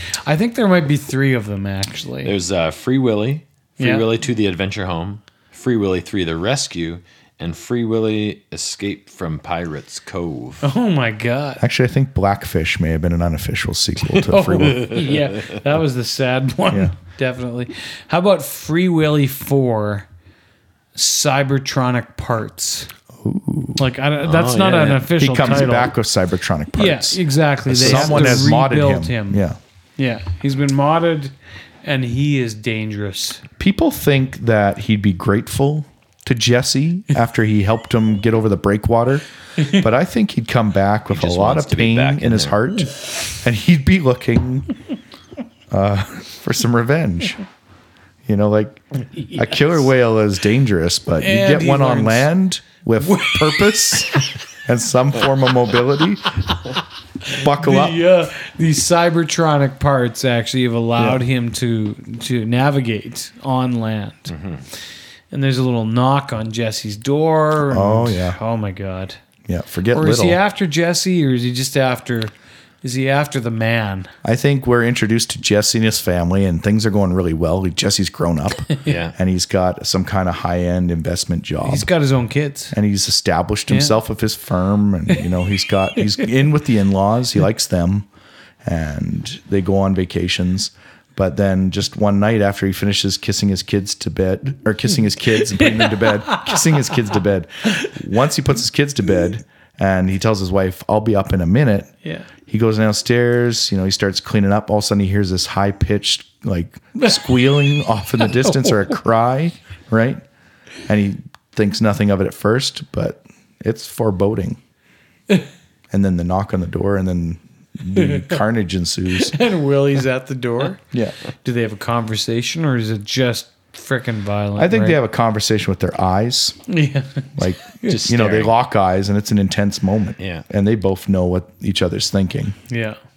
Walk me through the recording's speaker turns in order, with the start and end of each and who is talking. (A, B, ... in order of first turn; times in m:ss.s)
0:00.1-0:02.3 A
0:02.2-0:10.7 B
0:03.8-0:04.0 A
0:10.6-0:11.6 A
0:11.6-0:15.0 C
0:14.2-0:20.1 A
0:20.9-0:22.9 A
0:23.2-0:23.8 C
0:23.8-0:25.9 A
0:24.2-0:25.1 B
0:25.2-0:29.6 C
0:26.7-0:29.4 A
0:27.8-0:28.3 B
0:30.0-0:33.4 A
0:33.6-0:44.7 C
0:41.1-0:42.6 B
0:45.7-0:47.4 C
0:48.2-0:56.4 C
0:49.0-0:49.8 A
0:51.2-0:52.3 A
0:53.0-0:54.3 A
0:57.2-1:04.3 A
0:57.3-0:58.0 C
1:01.0-1:01.2 C
1:04.3-1:04.6 B
1:05.3-1:09.2 A
1:07.7-1:08.4 C
1:09.4-1:10.4 C
1:09.9-1:14.1 A
1:14.2-1:21.9 C
1:18.8-1:19.1 B
1:21.6-1:22.7 A
1:22.7-1:28.1 C
1:23.7-1:24.0 A
1:28.6-1:41.9 C
1:35.6-1:36.6 A
1:42.5-1:50.2 C
1:48.4-1:48.8 A
1:50.9-1:54.6 C
1:55.9-1:59.4 C
1:57.9-1:58.4 A
1:59.1-2:00.8 A
2:01.4-2:05.0 A
2:04.6-2:06.6 C
2:06.7-2:08.0 A
2:07.4-2:12.6 C
2:07.8-2:08.5 B
2:10.2-2:10.4 B
2:12.7-2:13.0 A